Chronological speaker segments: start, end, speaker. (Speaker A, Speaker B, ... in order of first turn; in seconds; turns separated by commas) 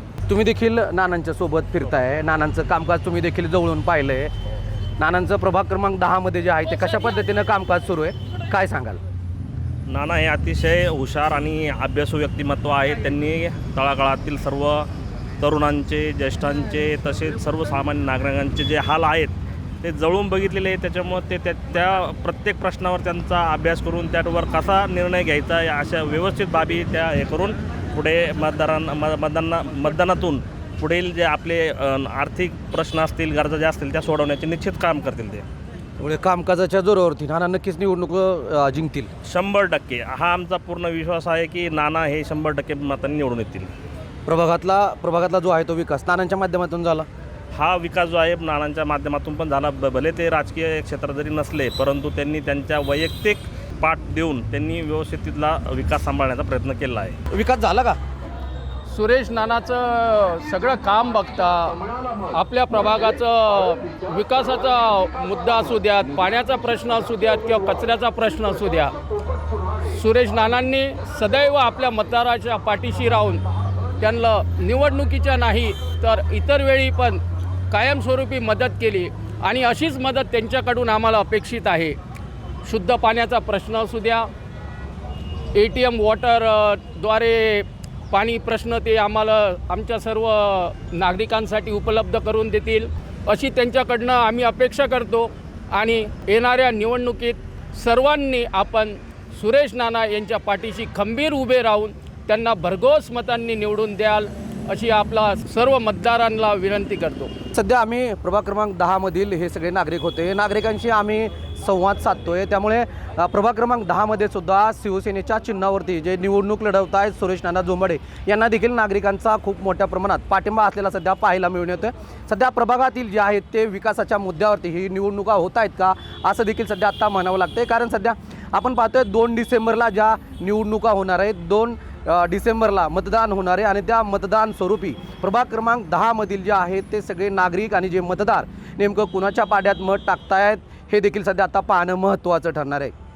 Speaker A: 0.3-4.3, Speaker A: 5.0-9.0, Speaker B: 9.9-14.9, Speaker B: 15.4-35.5, Speaker A: 36.0-39.1, Speaker B: 39.2-43.7, Speaker A: 44.3-47.1, Speaker B: 47.5-57.2, Speaker A: 57.3-58.0, Speaker C: 58.9-69.0, Speaker C: 69.9-73.5, Speaker C: 74.0-82.0, Speaker C: 82.7-84.3, Speaker C: 85.5-107.3, Speaker A: 107.5-142.9